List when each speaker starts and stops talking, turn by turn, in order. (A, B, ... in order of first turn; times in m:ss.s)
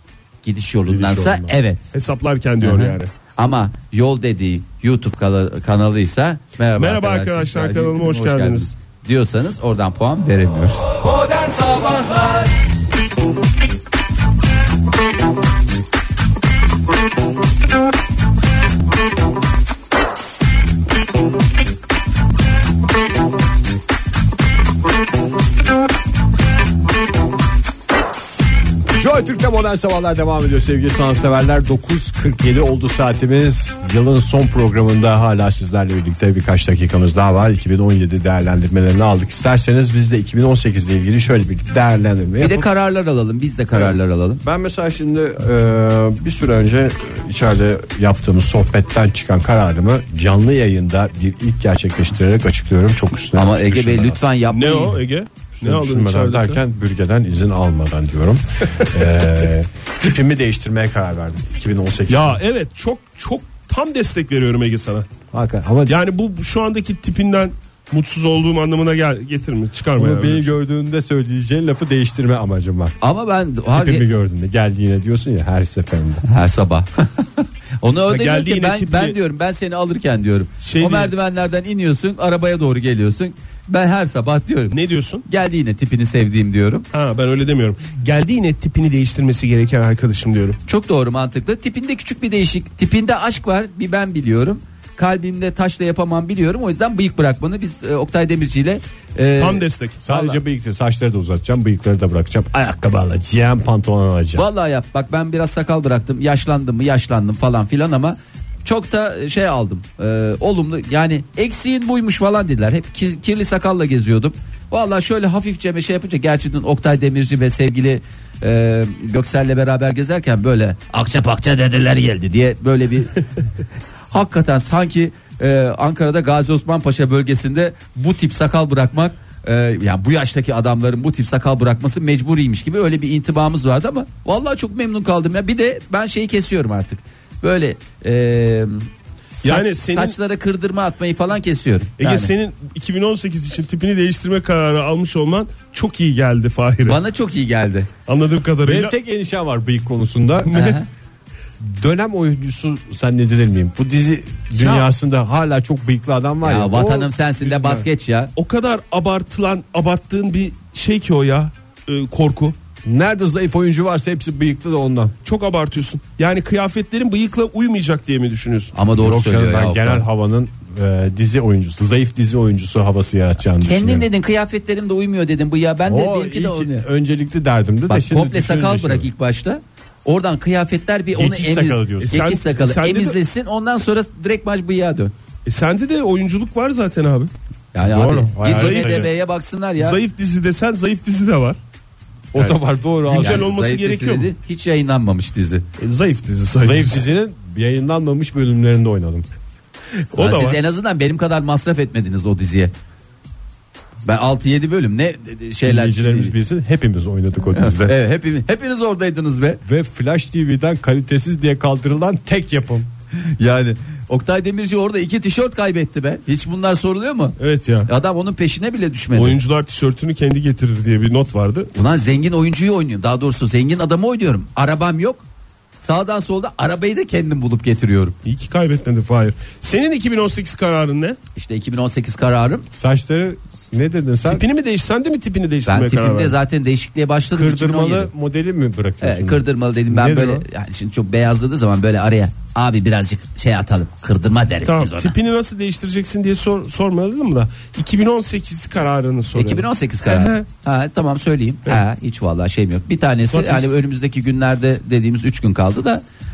0:00.4-0:01.9 A
0:00.9-0:01.6 B
0:01.9-0:03.1 C
0:02.6-0:12.4 A
0:06.8-0:08.7 C
0:28.9-0:42.6 B
0:42.4-0:44.4 A
0:43.7-0:54.2 B
0:53.3-0:55.0 A
0:54.5-0:56.6 C
0:55.6-1:02.4 B
1:02.1-1:05.0 C
1:05.3-1:06.0 B
1:05.9-1:10.5 C
1:10.0-1:13.0 B
1:13.0-1:14.0 A
1:13.7-1:16.2 B
1:16.2-1:26.8 A
1:18.1-1:19.2 C
1:20.6-1:21.1 C
1:24.7-1:25.2 C
1:26.9-1:30.6 C
1:30.6-1:40.4 A
1:39.4-1:40.0 C
1:40.0-1:44.4 B
1:44.4-2:03.2 A
2:04.1-2:18.9 A
2:19.4-2:22.3 A
2:19.4-2:20.2 C
2:22.0-2:27.0 C
2:26.8-2:27.9 A
2:28.0-2:28.9 C
2:28.6-2:30.8 B
2:30.4-2:30.9 A
2:31.6-2:37.1 B
2:36.4-2:38.3 A
2:37.4-2:42.5 C
2:42.8-2:45.1 B
2:45.2-2:48.7 C
2:48.7-2:50.0 A
2:49.0-2:54.1 B
2:53.6-2:56.8 A
2:55.8-2:59.1 B
2:57.9-3:05.1 A
3:01.1-3:02.3 B
3:02.1-3:03.2 C
3:05.4-3:07.3 C
3:07.7-3:10.0 A
3:07.8-3:09.1 B
3:08.4-3:09.1 C
3:09.8-3:11.6 C
3:12.3-3:13.5 B
3:12.3-3:15.6 A
3:13.1-3:14.3 C
3:15.8-3:17.0 C
3:16.6-3:19.3 B
3:20.1-3:20.6 C
3:20.2-3:22.7 A
3:24.0-3:26.3 A
3:25.6-3:27.9 B
3:27.5-3:29.6 A
3:29.6-3:32.9 B
3:33.1-3:39.4 A
3:37.4-3:37.9 C
3:39.1-3:41.7 C
3:41.7-3:45.2 A
3:45.8-3:48.2 A
3:48.2-3:51.2 C
3:51.3-3:52.7 A
3:52.8-3:54.4 B
3:54.2-3:56.4 C
3:55.7-3:58.1 A
3:57.4-4:00.4 B
3:59.0-4:05.1 A
4:04.6-4:10.4 C
4:09.3-4:16.0 A
4:13.3-4:13.7 C